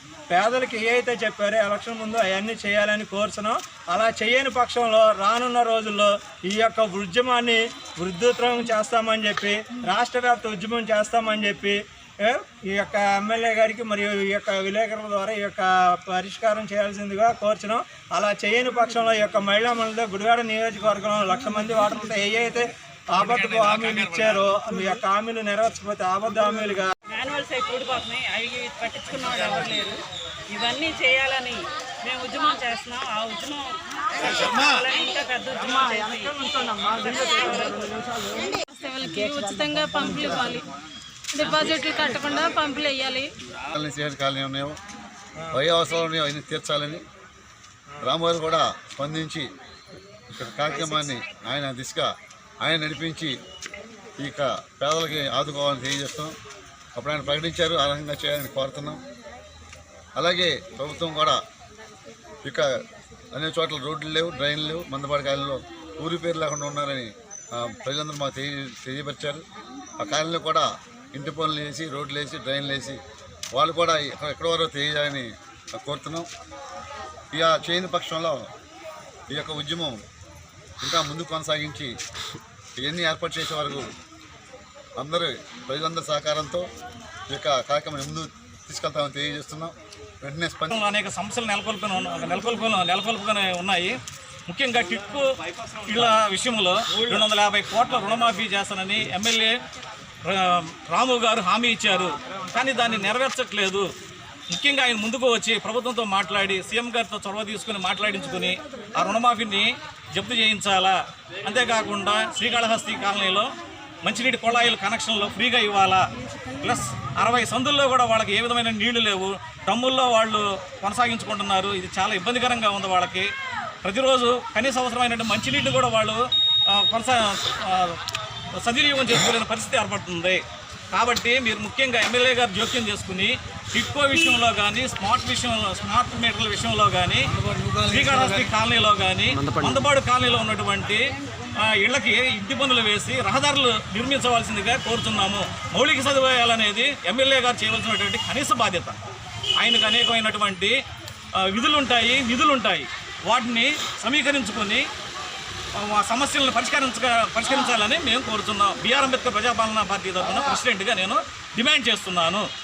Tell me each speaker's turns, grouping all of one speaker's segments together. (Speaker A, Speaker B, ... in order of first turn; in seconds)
Speaker A: 0.3-26.9
Speaker B: 23.2-24.4, 34.1-34.9, 90.7-94.0, 94.5-99.6, 100.2-103.9, 104.5-113.5, 114.0-116.0, 116.6-123.3, 123.8-128.0, 128.5-141.0, 141.6-149.0, 149.6-150.8, 151.3-154.8, 155.8-162.4
Speaker C: 27.1-37.9
Speaker D: 38.9-40.6, 41.4-43.2
Speaker E: 43.7-44.8, 45.5-47.0, 48.0-49.5, 50.3-52.1, 52.6-53.3, 54.2-56.4, 56.9-59.0, 60.1-61.4, 62.4-62.8, 63.3-69.4, 70.0-73.0, 73.5-76.3, 77.3-78.5, 79.3-80.0, 80.8-81.9, 82.8-83.9, 85.0-86.7, 87.3-90.7